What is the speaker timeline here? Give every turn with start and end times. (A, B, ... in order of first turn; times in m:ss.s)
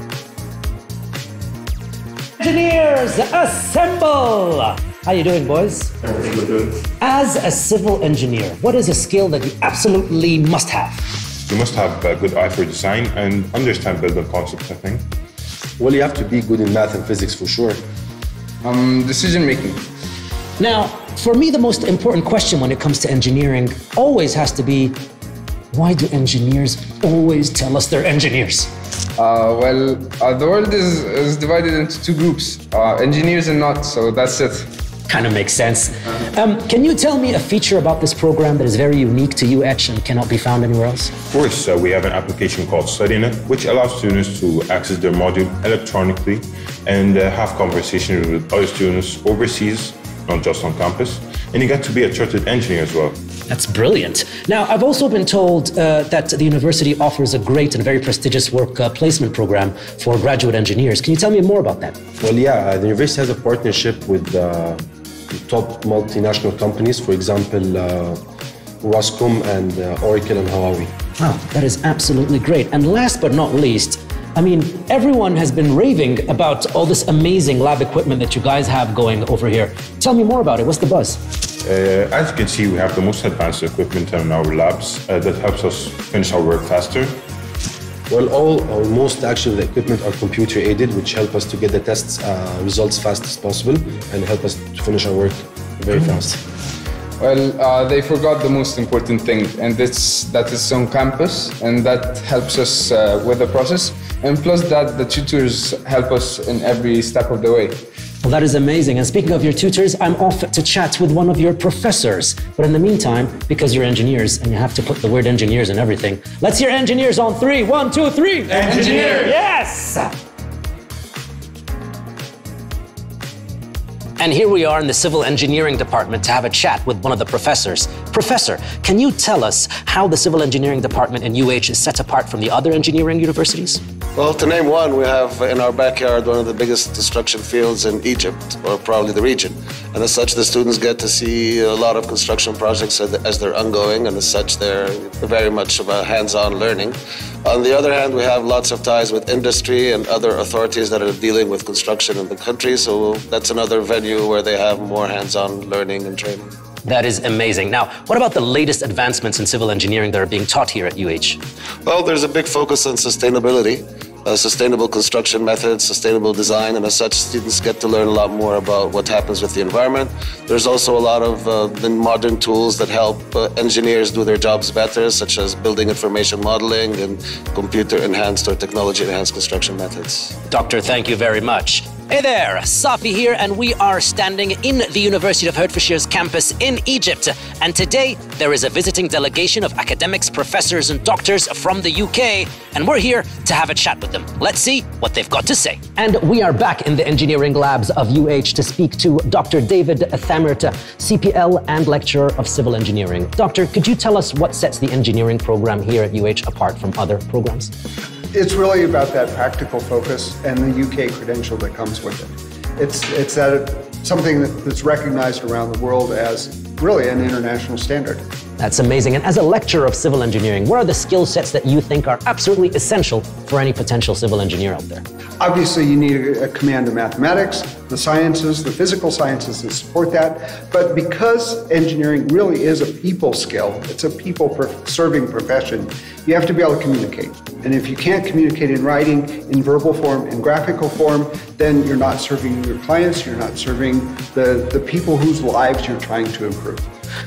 0:02.4-0:06.0 A
0:07.0-0:11.1 A
0:11.5-0:15.0 B
0:15.8-0:17.8 C
0:18.6-0:19.9 D
0:20.6-0:25.0 A
0:25.7-0:28.7 A
0:29.2-0:34.7 D
0:35.1-0:41.1 A
0:41.3-0:53.2 B
0:53.5-1:02.0 A
1:02.2-1:08.2 C
1:08.8-1:10.9 C
1:11.2-1:21.2 A
1:21.6-1:27.2 B
1:28.1-1:36.4 C
1:37.2-1:47.8 D
1:48.2-2:00.1 A
1:58.6-1:59.3 D
2:04.2-2:13.8 A
2:14.2-2:36.5 E
2:36.8-2:41.4 A
2:41.8-3:00.3 E
3:00.5-3:27.7 A
3:28.3-3:38.2 F
3:38.6-3:45.0 A
3:45.4-4:06.9 F